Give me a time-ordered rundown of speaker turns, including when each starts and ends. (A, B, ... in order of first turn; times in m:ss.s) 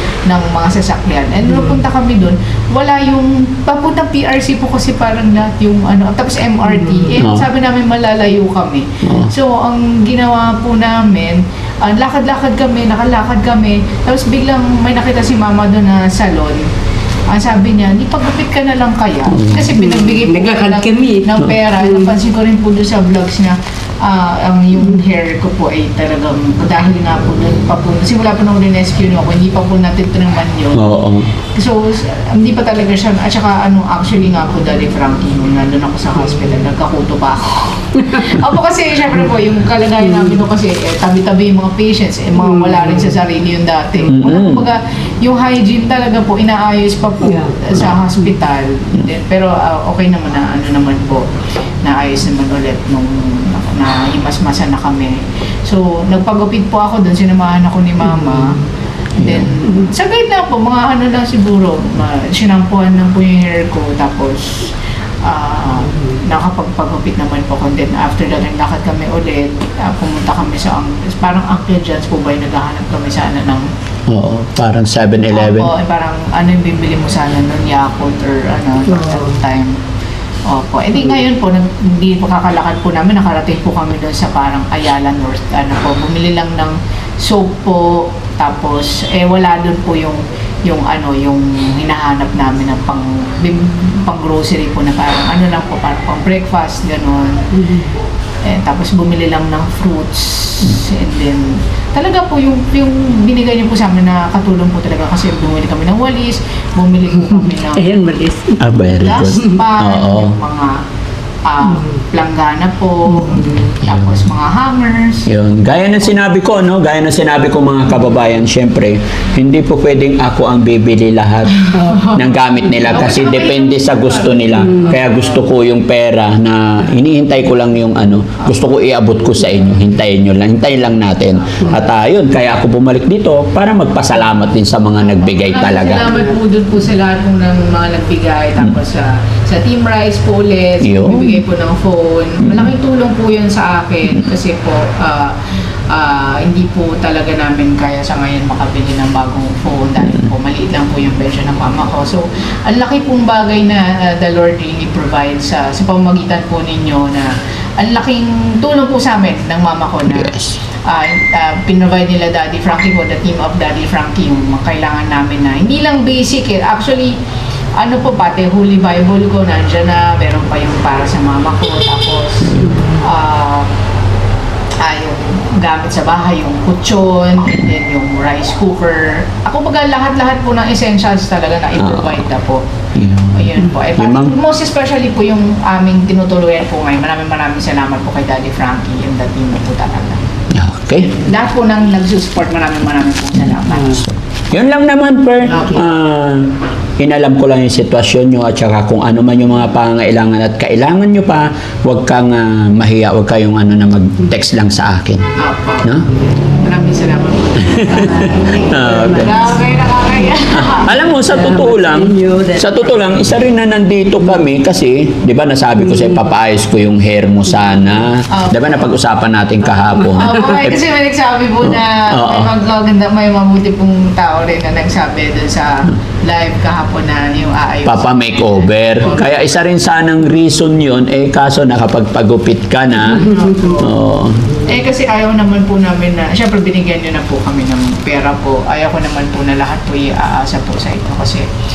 0:00.3-0:16.6 A
0:07.2-0:07.4 B
0:09.0-0:09.3 B
0:17.3-0:31.0 A
0:19.3-0:19.7 B
0:19.7-0:22.1 C
0:30.7-0:31.3 B
0:31.5-0:51.3 A
0:38.0-0:38.3 C
0:42.4-0:43.1 C
0:44.1-0:44.6 B
0:47.2-0:47.7 C
0:51.8-0:58.6 A
0:59.2-0:59.5 B
0:59.2-1:04.7 A
1:05.2-1:13.7 A
1:14.1-1:15.7 B
1:15.3-1:19.8 A
1:18.9-1:19.3 C
1:20.5-1:37.5 A
1:37.5-1:37.9 C
1:38.4-1:47.9 A
1:47.7-1:48.8 C
1:48.6-1:50.4 B
1:48.9-1:50.8 A
1:51.4-1:55.3 A
1:53.8-1:54.1 B
1:55.2-2:16.1 B
2:01.7-2:05.4 A
2:15.2-2:25.4 A
2:20.8-2:21.3 B
2:25.9-2:47.2 A
2:40.1-2:40.6 B
2:47.8-2:53.7 A
2:52.6-2:53.0 C
2:54.8-3:02.6 A
3:01.8-3:02.2 B
3:03.0-3:04.3 B
3:03.3-3:10.2 A
3:10.5-3:11.2 B
3:11.2-3:14.0 A
3:14.5-3:25.3 B
3:15.5-3:15.8 A
3:25.4-3:25.9 A
3:26.6-3:31.0 A
3:27.6-3:29.3 B
3:27.8-3:29.6 C
3:30.5-3:40.8 B
3:31.0-3:33.0 C
3:35.8-3:36.2 C
3:38.3-3:38.9 A
3:40.1-3:49.4 A
3:42.1-3:42.5 B
3:47.8-3:54.5 B
3:53.1-3:53.9 A
3:54.6-4:01.5 A